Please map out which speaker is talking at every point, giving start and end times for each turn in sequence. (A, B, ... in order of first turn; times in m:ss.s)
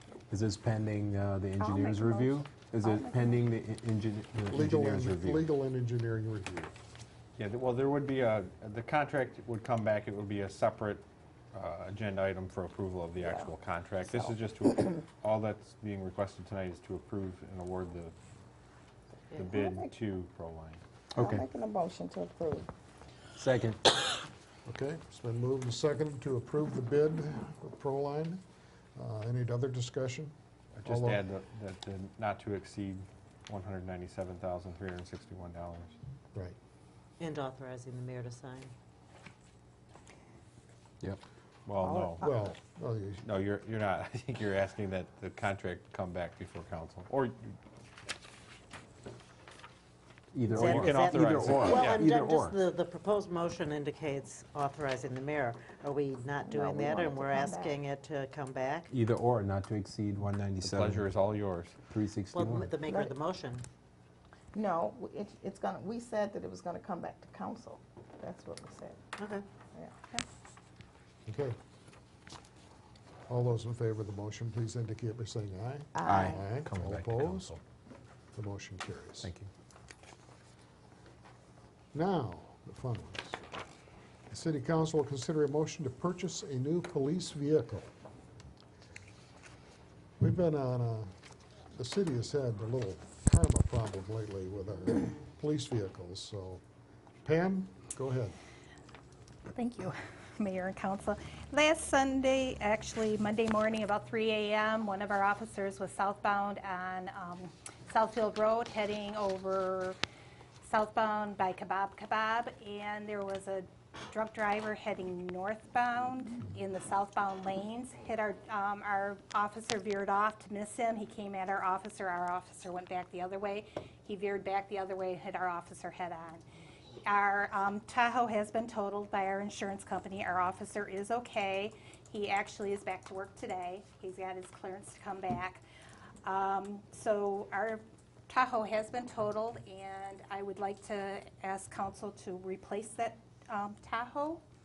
0:00.3-0:05.5 A
0:01.6-0:03.4 B
0:04.5-0:06.7 C
0:07.4-0:18.1 D
0:13.2-0:13.5 B
0:19.4-0:19.9 B
0:19.4-0:20.8 D
0:21.2-0:21.4 A
0:21.2-0:22.7 B
0:23.4-0:23.8 A
0:24.6-0:28.4 C
0:29.0-0:30.3 C
0:30.8-0:36.0 D
0:30.8-0:31.2 C
0:37.2-0:38.7 E
0:41.6-0:42.4 D
0:41.8-0:42.3 B
0:42.2-0:43.2 C
0:43.2-0:47.5 D
0:50.3-0:52.6 A
0:50.5-0:52.0 D
0:50.6-0:58.9 E
0:56.4-0:57.8 B
0:58.9-1:01.1 A
1:00.6-1:01.7 D
1:01.9-1:02.7 A
1:02.3-1:03.6 E
1:02.8-1:03.2 B
1:04.5-1:09.0 B
1:09.2-1:09.4 E
1:11.2-1:11.6 C
1:13.3-1:17.6 C
1:15.9-1:16.4 B
1:16.0-1:17.6 A
1:18.3-1:19.3 C
1:19.2-1:19.5 A
1:21.9-1:23.4 C
1:24.3-1:27.9 C
1:30.2-1:31.1 C
1:31.8-1:36.6 C
1:37.2-1:38.3 C
1:39.5-1:50.0 F
1:50.6-2:06.4 F
2:07.0-2:15.6 F
2:16.2-2:24.4 F